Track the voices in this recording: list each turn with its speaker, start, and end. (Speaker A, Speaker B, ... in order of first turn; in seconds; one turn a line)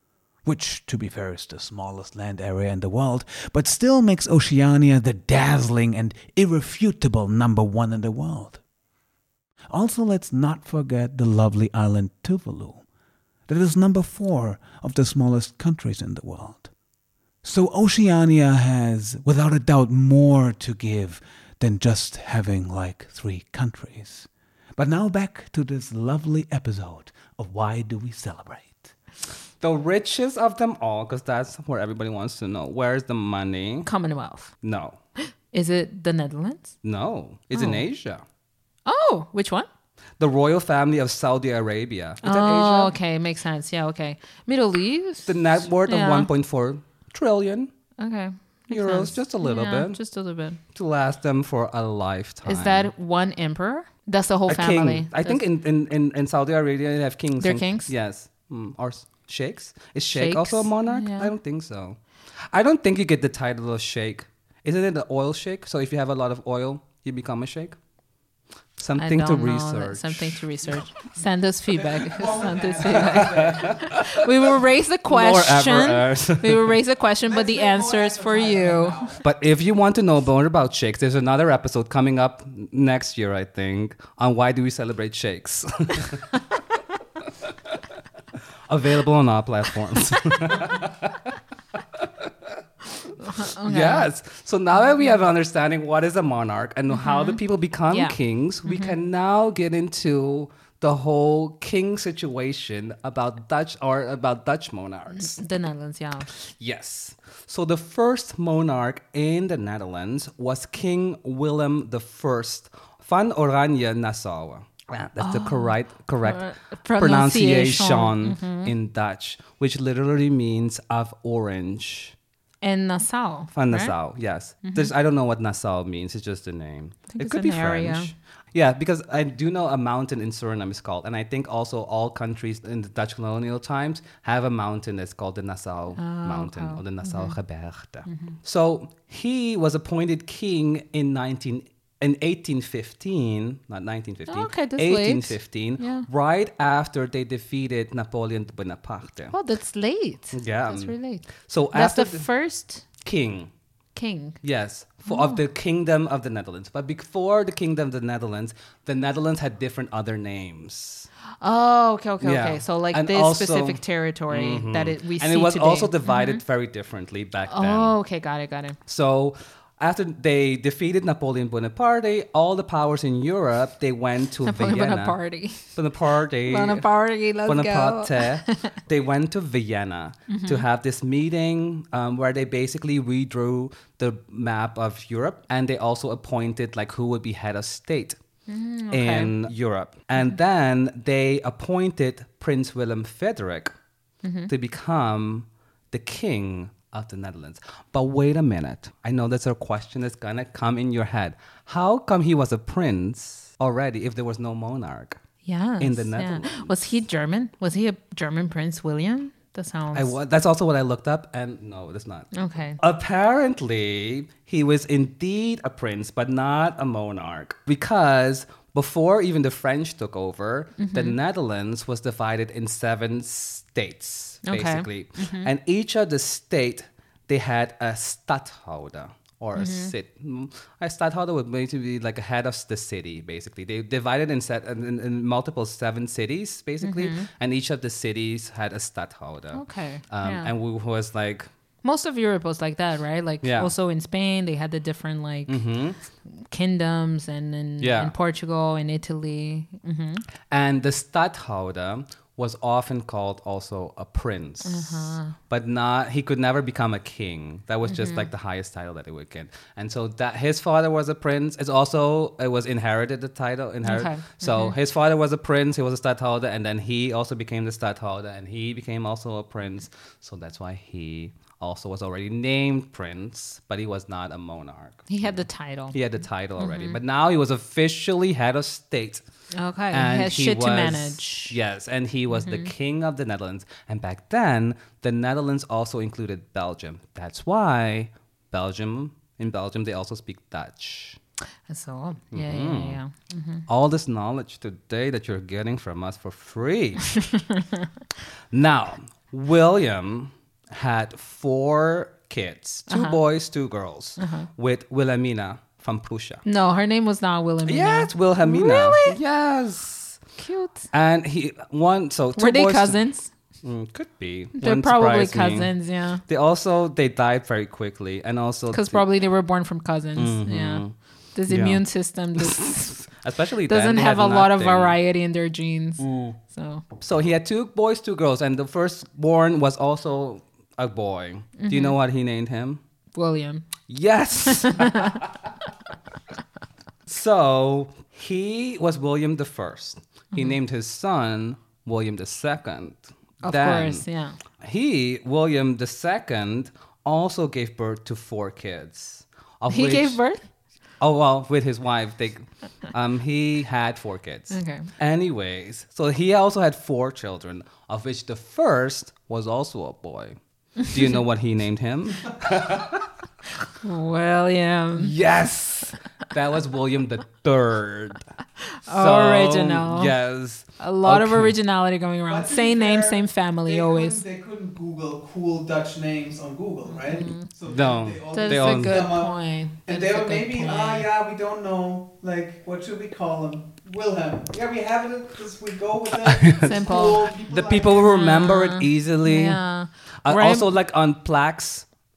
Speaker A: 0.5-8.6
Speaker A: 9.7-12.8
Speaker A: 13.5-16.7
Speaker A: 17.4-28.9
Speaker B: 29.6-33.9
Speaker C: 33.9-34.5
Speaker B: 34.6-35.0
Speaker C: 35.5-36.7
Speaker B: 36.8-38.2
Speaker C: 37.5-37.9
Speaker C: 38.9-39.7
Speaker B: 40.2-42.9
Speaker C: 42.2-46.3
Speaker B: 45.3-47.7
Speaker C: 48.0-50.6
Speaker B: 48.7-50.0
Speaker B: 50.7-52.9
Speaker C: 52.5-55.4
Speaker B: 54.5-62.0
Speaker C: 57.4-57.9
Speaker C: 60.1-61.3
Speaker B: 62.5-67.8
Speaker B: 68.8-70.8
Speaker C: 69.0-79.1
Speaker D: 71.7-74.0
Speaker B: 72.8-74.1
Speaker B: 75.1-76.8
Speaker D: 77.2-79.2
Speaker B: 79.2-86.3
Speaker B: 88.7-91.3
Speaker B: 92.0-92.5
Speaker C: 93.2-94.1
Speaker B: 93.5-105.4
Speaker C: 96.9-99.0
Speaker C: 105.1-106.3
Speaker B: 106.4-122.2
Speaker C: 115.2-118.7
Speaker C: 122.6-123.9
Speaker B: 123.5-149.3
Speaker C: 124.6-124.9
Speaker C: 127.1-128.1
Speaker C: 136.0-137.3
Speaker C: 138.1-138.4
Speaker C: 144.3-146.1
Speaker C: 149.3-152.8
Speaker B: 150.3-152.3
Speaker B: 153.0-153.5
Speaker C: 153.9-154.4
Speaker B: 154.4-161.1
Speaker C: 155.1-155.4
Speaker C: 161.4-166.4
Speaker B: 162.2-167.9
Speaker C: 167.5-168.8
Speaker B: 168.9-176.9
Speaker C: 174.4-175.7
Speaker C: 176.5-178.7
Speaker B: 177.4-188.2
Speaker C: 180.3-180.7
Speaker C: 188.5-189.3
Speaker B: 188.9-193.7
Speaker C: 194.2-194.5
Speaker B: 194.5-205.2
Speaker C: 205.4-210.2
Speaker B: 205.8-206.7
Speaker B: 209.9-241.5
Speaker C: 212.3-212.8
Speaker C: 220.8-221.2
Speaker C: 224.4-225.5
Speaker C: 229.6-229.9
Speaker C: 236.8-237.3
Speaker C: 239.5-240.5
Speaker C: 241.8-245.6
Speaker B: 243.4-243.7
Speaker B: 245.5-246.0
Speaker C: 246.5-250.2
Speaker B: 247.8-248.1
Speaker B: 250.5-279.2
Speaker C: 254.6-255.3
Speaker C: 257.9-258.3
Speaker C: 263.9-264.8
Speaker C: 275.1-276.0
Speaker C: 276.6-277.0
Speaker C: 279.5-281.6
Speaker B: 279.9-291.2
Speaker C: 282.3-282.7
Speaker C: 291.7-293.7
Speaker B: 292.3-293.0
Speaker B: 293.7-297.1
Speaker C: 297.1-297.9
Speaker B: 298.5-306.4
Speaker C: 302.9-303.2
Speaker C: 304.2-304.5
Speaker C: 306.4-309.2
Speaker B: 307.7-310.2
Speaker C: 310.4-310.9
Speaker B: 310.9-313.0
Speaker C: 312.4-313.3
Speaker B: 313.6-315.7
Speaker C: 314.6-316.2
Speaker B: 316.3-319.1
Speaker C: 318.7-320.8
Speaker B: 320.2-320.9
Speaker C: 321.4-323.0
Speaker B: 321.5-321.8
Speaker B: 322.4-325.0
Speaker C: 323.7-326.8
Speaker B: 326.0-326.4
Speaker B: 327.0-332.8
Speaker C: 331.6-332.0
Speaker C: 333.2-333.7
Speaker B: 333.9-335.2
Speaker C: 334.4-335.2
Speaker B: 337.1-344.1
Speaker C: 343.4-344.4
Speaker B: 344.6-350.2
Speaker C: 349.7-350.4
Speaker B: 351.0-360.4
Speaker C: 354.5-354.9
Speaker C: 360.8-361.2
Speaker B: 360.9-363.1
Speaker C: 363.8-365.1
Speaker B: 365.0-368.2
Speaker C: 368.8-370.1
Speaker B: 368.9-371.6
Speaker C: 370.8-374.2
Speaker D: 372.3-388.1
Speaker C: 376.9-377.5
Speaker B: 377.7-379.2
Speaker C: 378.3-381.1
Speaker B: 386.2-386.8
Speaker C: 386.6-387.3
Speaker B: 387.4-389.6
Speaker C: 388.0-390.7
Speaker B: 390.2-391.9